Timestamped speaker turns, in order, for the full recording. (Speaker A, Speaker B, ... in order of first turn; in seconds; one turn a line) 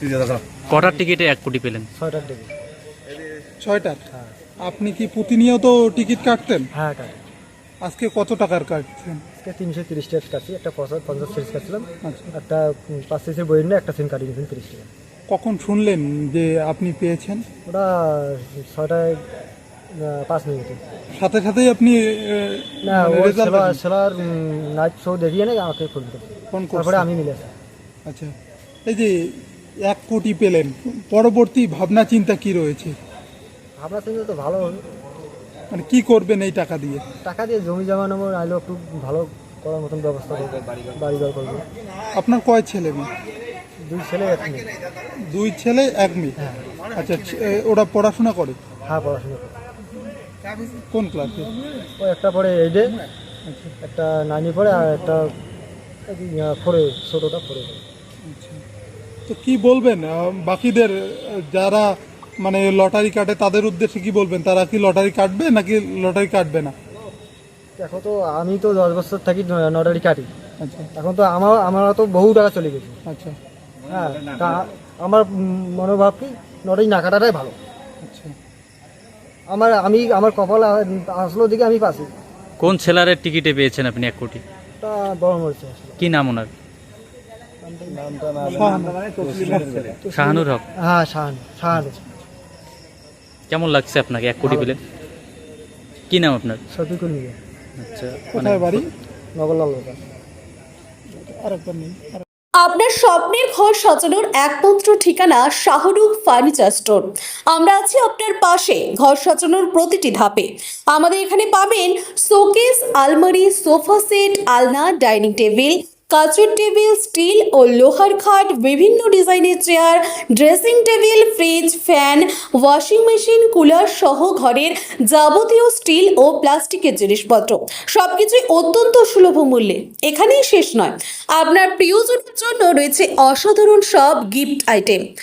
Speaker A: 0.7-1.9
Speaker B: 1.9-2.5
Speaker C: 3.6-4.0
Speaker C: 4.6-6.7
Speaker B: 6.7-7.2
Speaker C: 7.8-9.2
Speaker B: 9.4-14.9
Speaker C: 12.0-12.3
Speaker C: 15.3-17.4
Speaker B: 17.6-19.2
Speaker B: 19.9-20.8
Speaker C: 21.2-23.8
Speaker B: 22.8-27.5
Speaker C: 26.5-27.1
Speaker C: 28.1-28.3
Speaker C: 28.9-32.9
Speaker B: 33.8-34.8
Speaker C: 35.7-37.0
Speaker B: 37.2-41.6
Speaker C: 42.1-43.1
Speaker B: 43.9-44.7
Speaker C: 45.3-46.4
Speaker C: 46.9-48.6
Speaker B: 48.9-49.5
Speaker C: 50.7-51.5
Speaker B: 52.0-53.0
Speaker C: 53.5-53.7
Speaker B: 53.8-55.3
Speaker B: 56.1-57.8
Speaker C: 58.2-58.6
Speaker C: 59.3-66.7
Speaker B: 67.8-70.3
Speaker C: 70.6-70.9
Speaker B: 70.9-73.0
Speaker C: 73.1-73.3
Speaker B: 73.9-77.5
Speaker C: 78.0-78.3
Speaker B: 79.5-82.1
Speaker A: 82.6-84.4
Speaker B: 84.8-86.0
Speaker A: 86.0-86.5
Speaker B: 87.6-88.8
Speaker C: 88.5-89.9
Speaker B: 90.0-92.0
Speaker A: 90.1-90.6
Speaker A: 93.5-94.8
Speaker B: 94.4-94.8
Speaker A: 96.1-96.6
Speaker B: 96.7-97.3
Speaker A: 97.8-98.8
Speaker C: 98.3-98.9
Speaker B: 99.4-100.0
Speaker C: 101.1-102.2
Speaker D: 102.6-135.0